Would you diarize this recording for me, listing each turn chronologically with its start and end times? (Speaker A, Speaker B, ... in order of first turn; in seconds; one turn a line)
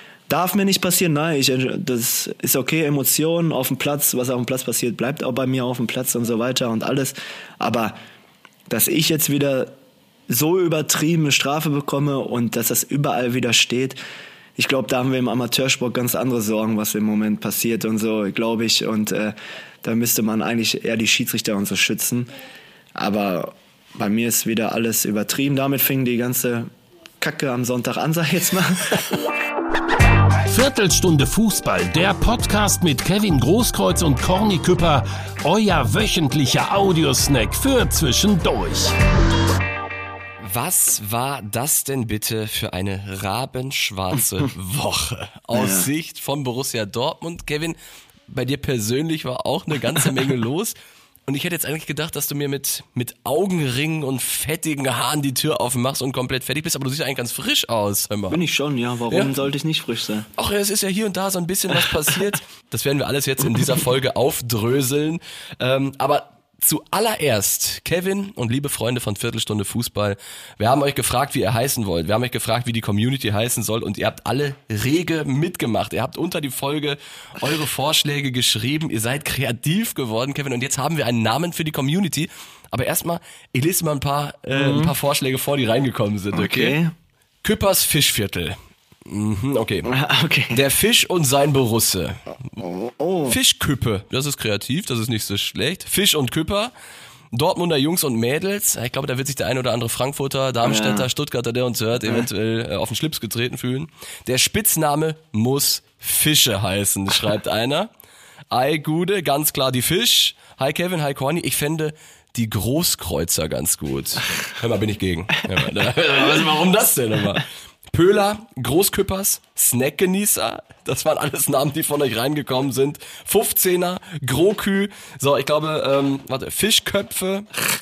Speaker A: 0.3-8.0
Speaker A: 8.7-9.7
Speaker A: 10.3-14.0
Speaker A: 14.6-22.3
Speaker A: 22.9-26.7
Speaker A: 27.2-29.1
Speaker B: 30.4-38.9
Speaker C: 40.4-47.8
Speaker A: 45.5-45.9
Speaker C: 48.3-50.7
Speaker C: 51.3-58.4
Speaker A: 58.3-60.3
Speaker C: 60.4-86.8
Speaker A: 84.5-84.9
Speaker A: 86.3-86.9
Speaker C: 87.4-89.9
Speaker A: 89.8-90.6
Speaker C: 90.5-92.5
Speaker A: 92.6-93.4
Speaker C: 93.3-96.7
Speaker C: 97.3-107.9
Speaker A: 100.6-101.1
Speaker C: 108.5-127.5